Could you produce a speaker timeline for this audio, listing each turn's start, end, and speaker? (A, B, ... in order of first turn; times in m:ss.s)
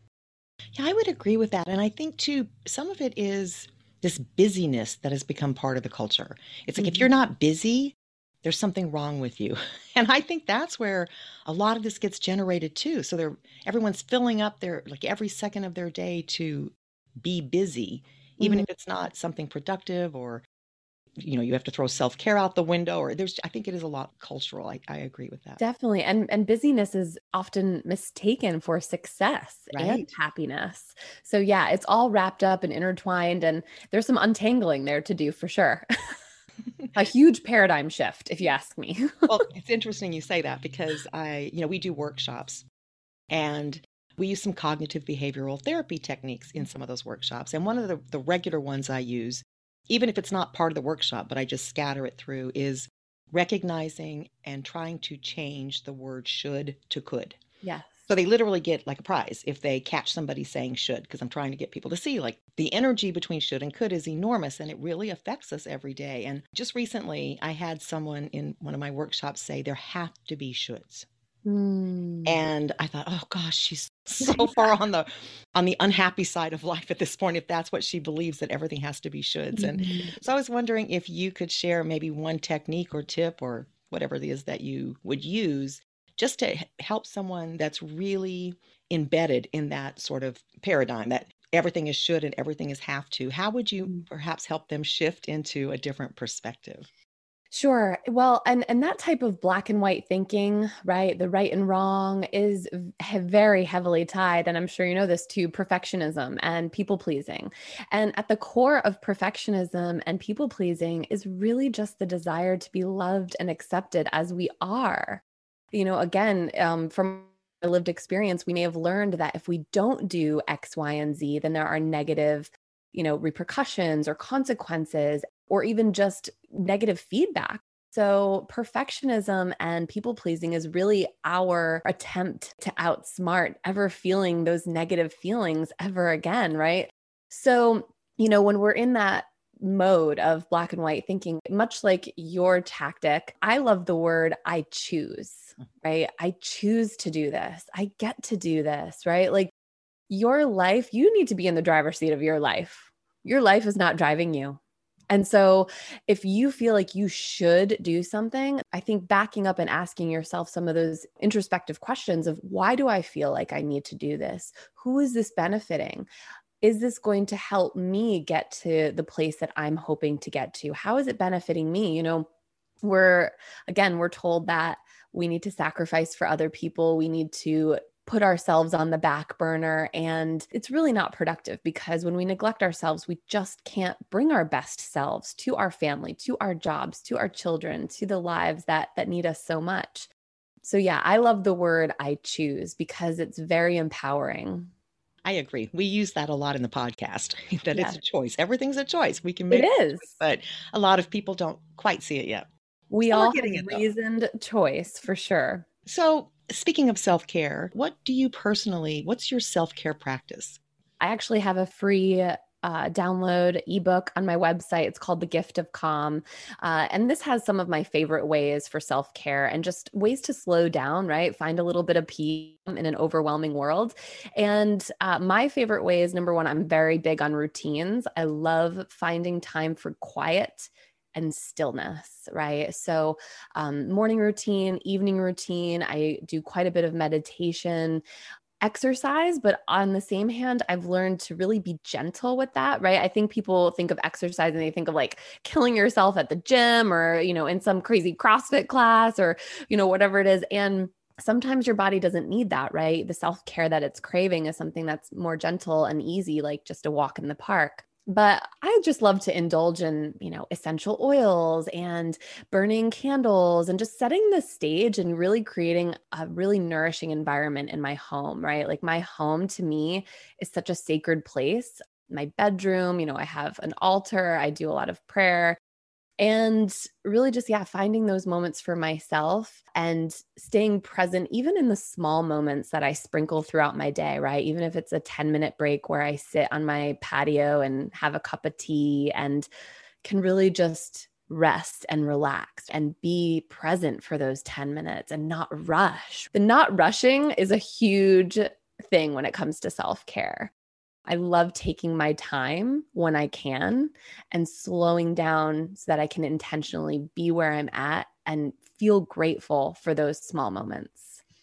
0:00.7-0:20.4 A
0:06.8-0:07.0 B
0:18.4-0:18.6 B
0:21.2-0:25.6 A
0:25.6-0:35.8 B
0:29.7-0:30.0 A
0:36.9-0:39.3 B
0:39.3-0:42.6 A
0:43.3-0:57.4 A
0:57.6-0:58.1 B
0:58.1-1:11.0 A
1:11.4-1:12.4 B
1:12.2-1:36.9 A
1:14.2-1:14.6 B
1:19.5-1:20.1 B
1:37.5-1:55.2 B
1:55.7-2:29.5 B
2:30.1-2:34.6 B
2:35.1-2:46.1 B
2:46.6-2:52.3 B
2:52.8-3:10.1 B
3:10.6-3:14.7 B
3:15.2-3:22.5 A
3:19.5-3:20.1 B
3:22.9-3:25.6 B
3:23.1-3:23.8 A
3:25.8-3:30.6 A
3:31.0-3:58.0 B
3:58.6-4:35.6 B
4:36.2-4:49.5 B
4:50.0-5:00.5 B
5:01.1-5:11.2 B